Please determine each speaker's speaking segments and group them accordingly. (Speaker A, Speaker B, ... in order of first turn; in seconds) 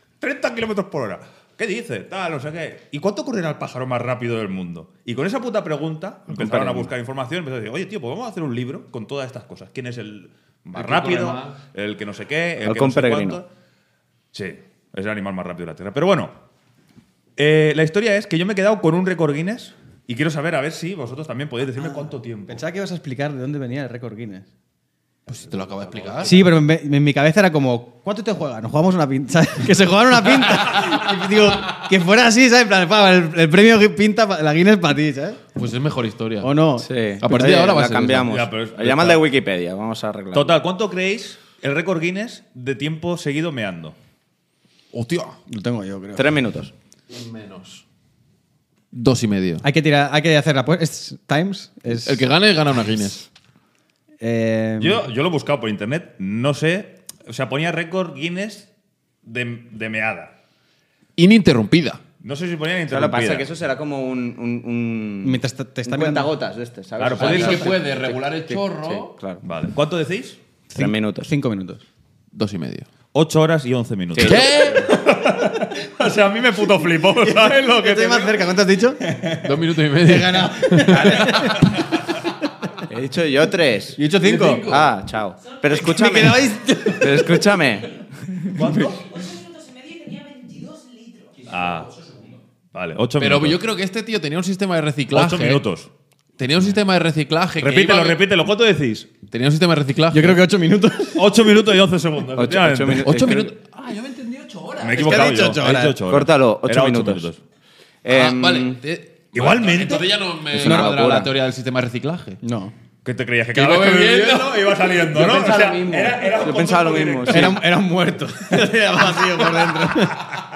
Speaker A: 0.2-13.5, 14.3-16.3, 17.4-22.6, 25.5-26.5, 38.3-39.2, 40.3-44.0, 54.8-58.7, 59.2-60.3, 62.2-63.5, 67.0-67.8, 69.4-70.4, 73.1-79.7, 88.5-89.1, 91.5-91.9, 92.7-93.6, 95.1-95.9, 97.6-99.1, 101.1-103.1, 104.8-107.4, 109.3-110.2, 113.0-117.6
Speaker B: 6.3-6.9, 12.6-13.4, 36.8-40.6, 46.1-46.7, 62.9-69.4, 70.7-71.3, 74.2-74.7, 82.9-84.0, 84.7-88.0, 102.3-103.5, 106.1-107.3, 108.0-108.8, 110.5-111.3, 115.1-117.6
Speaker C: 10.8-11.6, 25.3-26.5, 35.5-36.6, 37.2-38.3, 44.9-45.4, 47.1-47.8, 48.9-49.7, 52.0-53.3, 61.2-62.0, 67.2-69.1, 72.3-72.9, 74.2-74.9, 79.4-81.6, 84.1-85.0, 93.2-95.7, 96.4-98.2, 99.2-100.4, 103.0-105.5, 108.1-112.4, 113.5-115.2
Speaker D: 22.5-24.5, 26.2-35.4, 36.4-38.0, 45.5-46.3, 49.6-52.3, 54.2-55.0, 65.2-66.3, 70.7-71.8, 77.2-79.0, 80.0-81.9, 84.0-84.7, 85.7-87.6, 100.1-101.3, 104.9-106.0, 110.5-111.3, 112.4-112.7, 117.3-120.4
Speaker E: 88.9-91.5